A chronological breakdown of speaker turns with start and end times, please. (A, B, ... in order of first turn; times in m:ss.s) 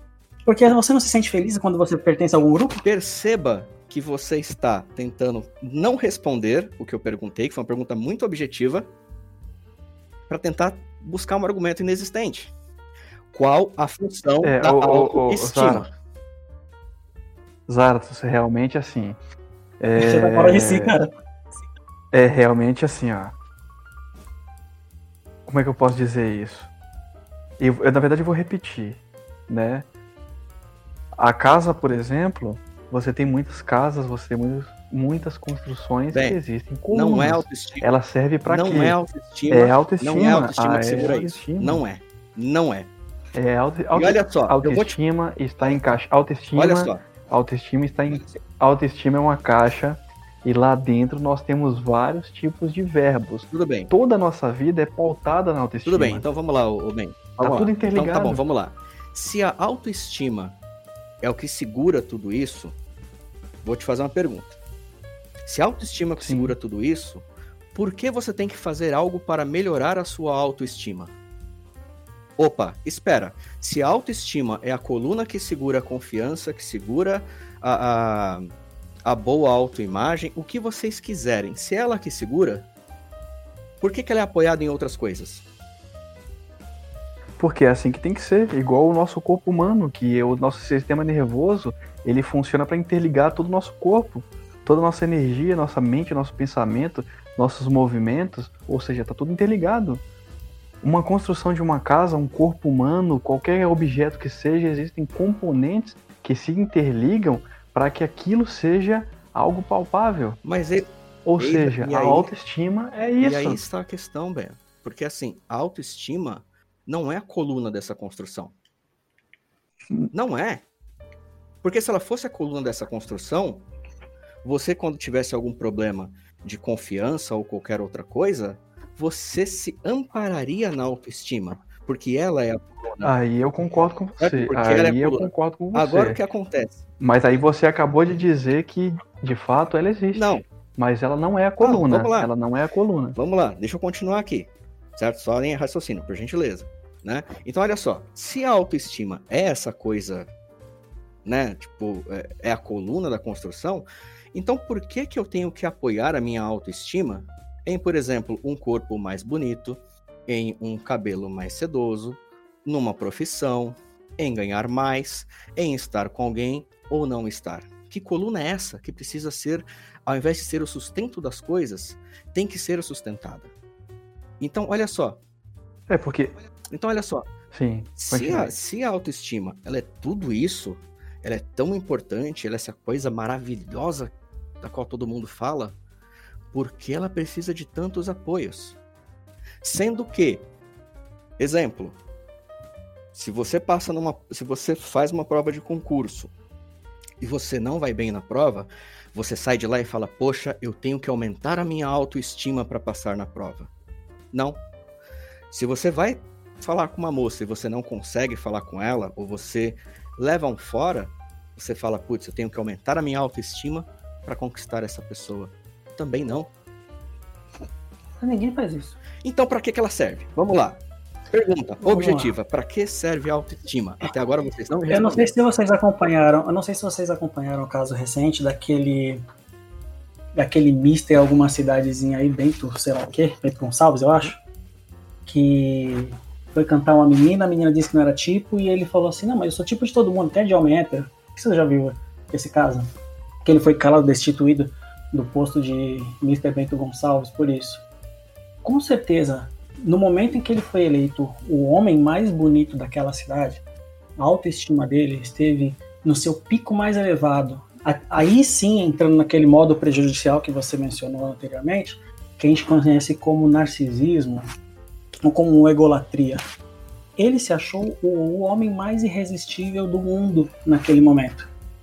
0:00.4-0:02.8 A
0:02.8-0:08.9 B
0:10.3-0:12.5 B
0:13.3-0:15.9 B
0:14.4-0:15.9 C
0:17.7-0:19.2 C
0:19.8-0:20.9 C
0:20.0-0:21.1 A
0:22.1-0:23.3 C
0:25.4-0:26.7 C
0:27.6-0:29.9 C
0:31.2-0:39.0 C
0:36.1-0:36.4 B
0:36.9-0:37.9 B
0:38.4-0:42.9 B
0:39.5-0:41.8 C
0:43.3-0:56.2 C
0:43.9-0:45.0 B
0:46.5-0:47.0 B
0:48.1-0:48.4 B
0:53.5-0:53.9 B
0:55.8-1:00.6 B
0:57.4-0:58.4 C
1:01.2-1:02.8 B
1:03.6-1:04.5 B
1:05.4-1:11.1 B
1:06.2-1:06.5 C
1:12.4-1:18.5 B
1:19.0-1:22.6 B
1:23.8-1:25.4 B
1:27.4-1:40.0 C
1:40.8-1:50.4 C
1:50.4-1:52.3 B
1:51.2-1:53.6 C
1:53.2-1:58.5 B
2:00.1-2:00.6 B
2:01.6-2:03.6 B
2:04.4-2:13.2 B
2:13.0-2:16.2 C
2:14.2-2:16.8 B
2:17.0-2:23.2 C
2:20.1-2:20.4 B
2:21.6-2:22.3 B
2:23.2-2:30.3 B
2:31.2-2:53.5 B
2:54.4-2:55.2 B
2:55.9-2:56.3 C
2:56.7-2:57.3 B
2:57.5-2:58.5 C
2:58.0-3:05.8 B
3:06.5-3:08.8 B
3:09.6-3:10.5 B
3:11.4-3:12.0 B
3:13.1-3:16.3 B
3:17.2-3:23.7 B
3:24.3-3:24.6 B
3:25.5-3:36.5 B
3:38.2-3:39.0 A
3:39.2-3:45.3 B
3:41.8-3:42.3 A
3:44.9-3:49.2 A
3:50.3-3:54.4 A
3:55.2-4:02.9 A
4:03.4-4:07.8 A
4:08.6-4:13.6 A
4:14.2-4:24.4 A
4:25.2-4:26.4 A
4:27.2-4:31.5 A